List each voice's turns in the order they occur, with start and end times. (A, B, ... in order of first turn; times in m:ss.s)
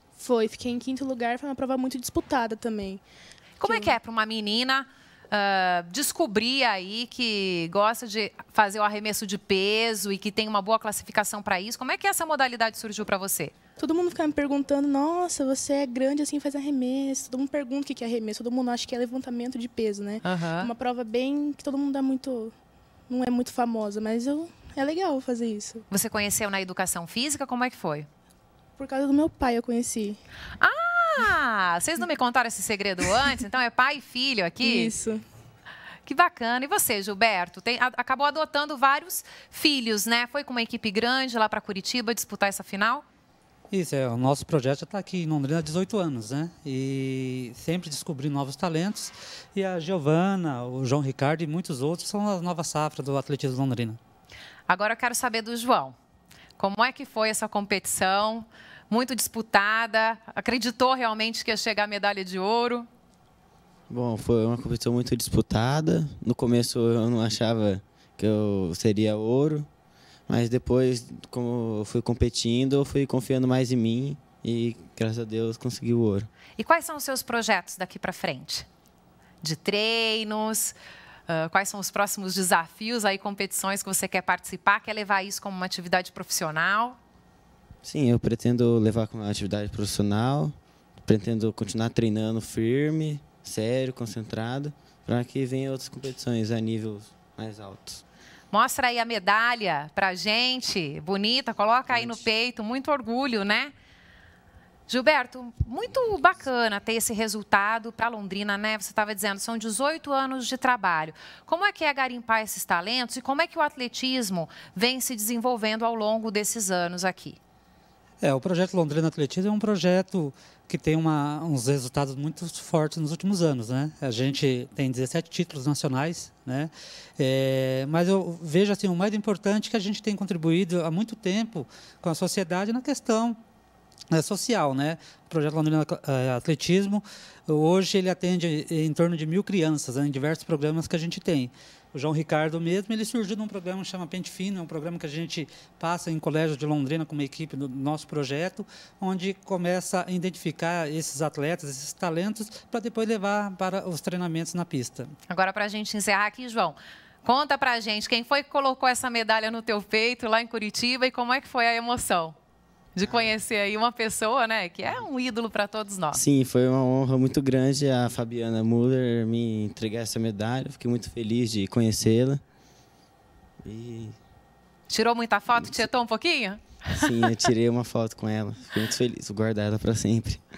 0:00.2-0:03.0 A
0:03.6-0:13.5 B
0:03.6-0:03.9 A
0:13.8-0:22.5 A
0:20.2-0:20.7 B
0:23.1-0:25.8 A
0:25.9-0:28.1 B
0:28.8-0:30.2 A
0:30.6-0:34.9 B
0:34.6-0:35.2 A
0:36.0-0:43.0 B
0:43.7-0:54.0 C
0:54.7-0:55.9 B
0:56.6-1:02.9 B
1:03.9-1:09.7 D
1:10.3-1:16.3 D
1:16.6-1:18.6 B
1:19.4-1:20.7 B
1:21.3-1:27.0 B
1:27.8-1:38.0 D
1:38.5-1:43.7 B
1:41.9-1:42.2 D
1:44.9-1:57.4 B
1:58.2-2:13.4 C
2:14.1-2:35.1 C
2:35.3-2:42.4 B
2:42.9-2:46.2 B
2:43.0-2:43.3 D
2:46.1-2:52.4 D
2:53.6-2:54.2 D
2:54.9-2:57.3 B
2:55.5-2:55.8 D
2:56.9-3:00.4 D